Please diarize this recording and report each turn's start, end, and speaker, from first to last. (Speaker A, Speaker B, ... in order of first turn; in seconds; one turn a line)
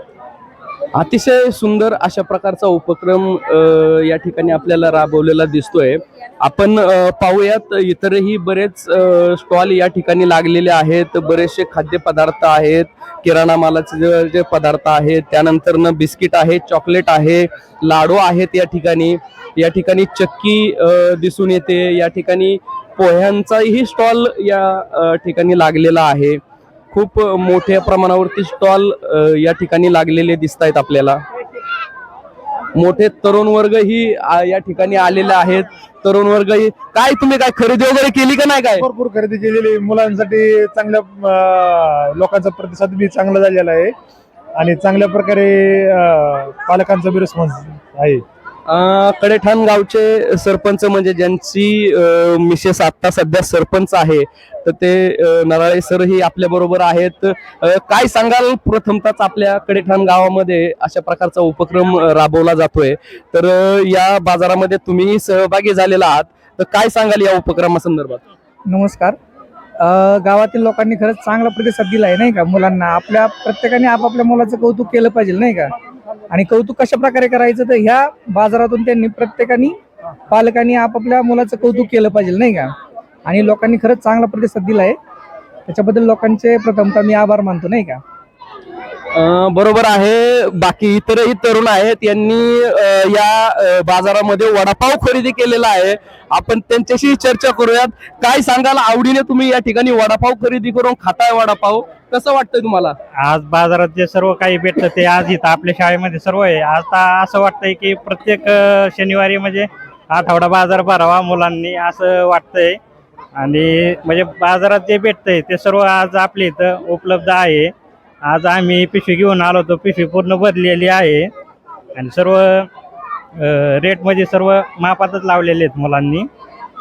Speaker A: 0.9-31.2
Speaker A: 32.7-38.9
Speaker B: 38.8-43.9
Speaker B: 44.5-48.2
Speaker A: 48.7-68.2
Speaker C: 68.7-69.2
Speaker C: 69.8-75.7
Speaker C: 76.3-79.8
Speaker C: 80.3-82.7
Speaker C: 83.2-85.0
Speaker C: 85.7-88.0
Speaker A: 89.1-103.0
Speaker D: 103.2-112.8
Speaker D: 113.3-117.7
Speaker D: 118.2-121.3
Speaker D: 122.0-122.7
Speaker D: 123.4-126.3